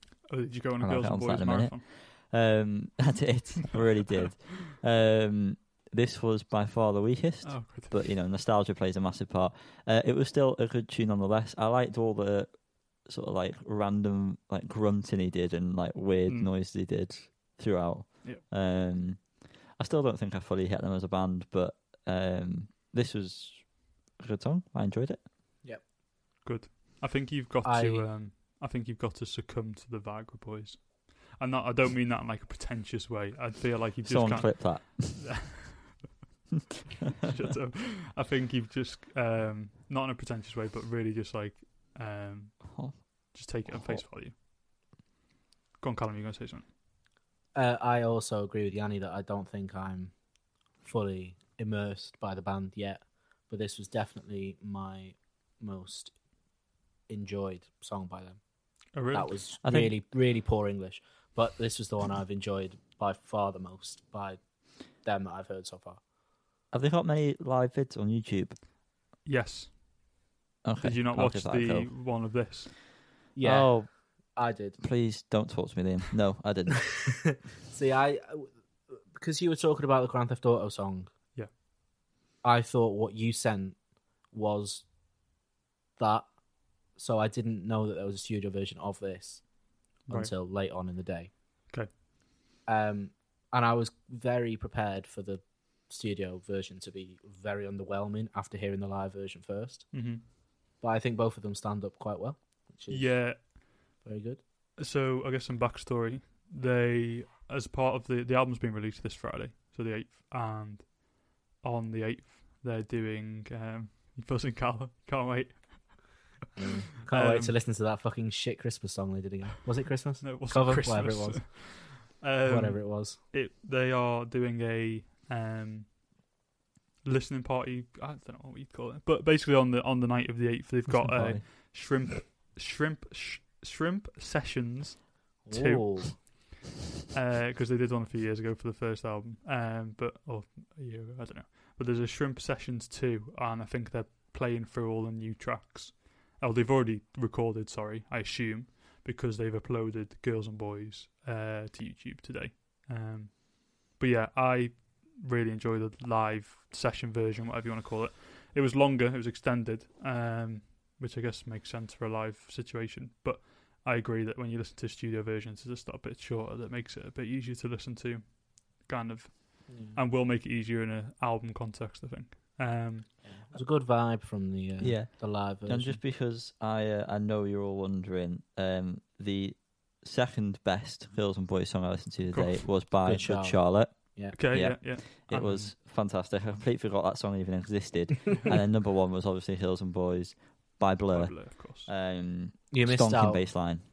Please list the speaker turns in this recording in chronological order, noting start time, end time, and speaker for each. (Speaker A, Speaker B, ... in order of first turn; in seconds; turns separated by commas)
Speaker A: 0.3-1.8, Speaker B: 0.8-25.2, Speaker A: 7.4-8.1, Speaker A: 26.4-35.8, Speaker C: 27.6-28.1, Speaker B: 34.0-35.5, Speaker A: 37.2-44.3, Speaker B: 42.7-44.0, Speaker A: 45.8-46.7, Speaker C: 47.5-50.1, Speaker C: 50.8-56.1, Speaker C: 57.1-58.4, Speaker A: 58.9-59.3, Speaker C: 59.1-64.4, Speaker B: 59.6-60.0, Speaker C: 65.0-66.0, Speaker B: 66.7-68.6, Speaker A: 69.2-69.8, Speaker B: 70.6-72.0, Speaker A: 70.8-72.8, Speaker C: 73.3-74.8, Speaker B: 73.4-77.0, Speaker C: 77.3-81.1, Speaker C: 82.4-83.8, Speaker C: 84.3-84.8, Speaker C: 86.0-86.3, Speaker C: 86.9-89.5, Speaker C: 90.0-91.3, Speaker A: 90.1-90.3, Speaker C: 92.7-100.0, Speaker A: 99.9-100.2, Speaker C: 100.8-104.4, Speaker A: 102.9-103.5, Speaker A: 104.8-116.2, Speaker C: 116.5-123.2, Speaker A: 117.1-117.5, Speaker A: 120.2-125.9, Speaker A: 127.0-136.5, Speaker B: 130.9-131.4, Speaker C: 135.4-136.2, Speaker A: 137.1-173.3, Speaker C: 169.7-170.0, Speaker C: 173.2-176.0, Speaker B: 174.8-193.8, Speaker A: 182.3-182.7, Speaker C: 183.0-184.3, Speaker A: 184.3-185.7, Speaker A: 191.1-191.9, Speaker C: 192.7-193.5